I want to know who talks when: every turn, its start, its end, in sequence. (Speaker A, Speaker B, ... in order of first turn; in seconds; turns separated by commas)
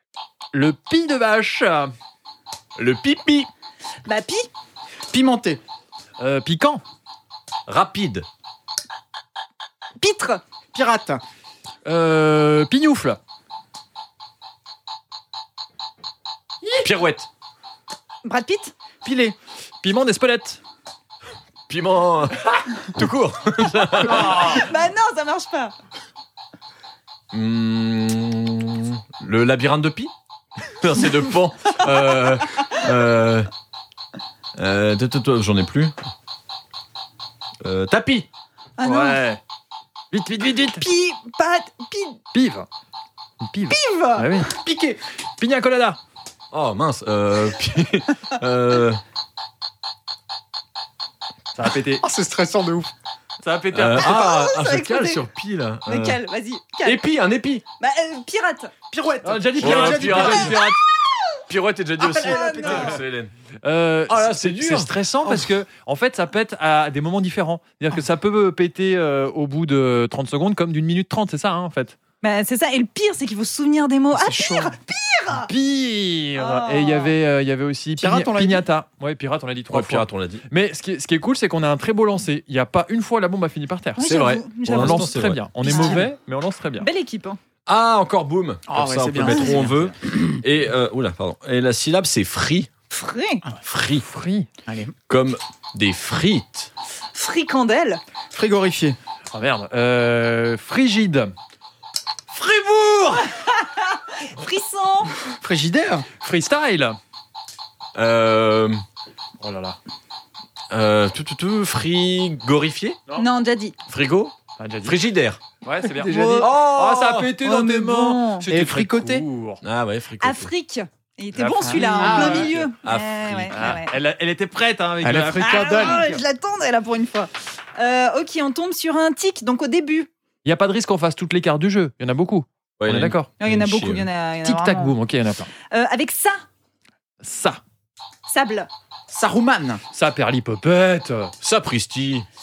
Speaker A: 0.5-1.9, Speaker B: 2.8-3.5, Speaker C: 4.0-4.5, Speaker D: 5.1-5.6, Speaker A: 6.2-6.8, Speaker B: 7.7-8.3, Speaker C: 10.0-10.4, Speaker D: 10.7-11.2, Speaker A: 11.8-13.2, Speaker B: 16.8-17.3, Speaker C: 18.2-18.7, Speaker D: 19.0-19.4, Speaker A: 19.8-20.6, Speaker B: 21.7-24.6, Speaker A: 24.0-24.6, Speaker C: 24.3-25.7, Speaker B: 27.3-30.1, Speaker B: 30.6-33.5, Speaker B: 34.6-36.0, Speaker B: 37.6-38.3, Speaker C: 38.8-39.2, Speaker A: 38.8-39.4, Speaker A: 40.1-40.9, Speaker C: 40.8-42.2, Speaker A: 42.3-42.7, Speaker A: 43.4-44.5, Speaker C: 43.7-44.4, Speaker D: 44.5-45.0, Speaker A: 45.4-46.0, Speaker B: 46.5-49.0, Speaker A: 51.5-52.0, Speaker D: 52.0-52.9, Speaker A: 53.4-54.2, Speaker B: 53.7-56.2, Speaker C: 54.0-55.2, Speaker C: 55.9-57.0, Speaker B: 56.8-57.6, Speaker C: 57.8-58.8, Speaker D: 58.9-60.7, Speaker A: 59.2-60.6, Speaker B: 59.6-60.8, Speaker B: 61.4-63.3, Speaker C: 62.0-63.0, Speaker D: 62.1-63.0, Speaker A: 63.6-72.0, Speaker B: 64.1-64.9, Speaker C: 72.2-75.5, Speaker D: 74.1-74.8, Speaker A: 75.4-84.0, Speaker C: 76.4-77.1, Speaker D: 78.0-78.7, Speaker B: 79.7-80.5, Speaker C: 84.0-86.0, Speaker B: 84.0-85.4, Speaker A: 84.7-86.9, Speaker D: 85.7-86.0, Speaker C: 86.8-87.4, Speaker B: 87.7-92.7, Speaker D: 88.7-90.4, Speaker C: 89.3-89.6, Speaker A: 89.5-89.8, Speaker C: 92.9-93.4, Speaker B: 93.6-94.1, Speaker A: 94.0-94.5, Speaker D: 94.7-95.0, Speaker B: 95.1-96.7, Speaker C: 97.1-98.0, Speaker D: 98.3-99.0, Speaker A: 99.3-101.3, Speaker B: 102.3-103.3, Speaker C: 103.3-105.2, Speaker D: 105.2-106.1, Speaker A: 106.2-107.0, Speaker B: 108.0-108.8, Speaker A: 109.4-109.8, Speaker B: 110.7-113.0, Speaker C: 113.2-113.8, Speaker B: 113.9-115.4, Speaker A: 114.6-115.0, Speaker A: 115.6-119.6, Speaker D: 115.8-116.6, Speaker B: 116.4-117.3, Speaker C: 117.4-118.5, Speaker D: 118.5-119.3, Speaker B: 119.6-120.5, Speaker C: 120.2-124.0, Speaker A: 121.3-122.7, Speaker D: 121.7-122.5, Speaker B: 122.8-123.7, Speaker A: 123.5-126.2, Speaker D: 125.0-126.1, Speaker C: 125.4-130.1, Speaker A: 130.4-133.3, Speaker B: 132.8-134.1, Speaker C: 133.4-134.9, Speaker A: 134.4-135.5, Speaker C: 135.7-136.4, Speaker A: 137.2-137.6, Speaker C: 138.3-138.7, Speaker D: 139.1-139.8, Speaker A: 139.9-141.3, Speaker B: 141.4-142.3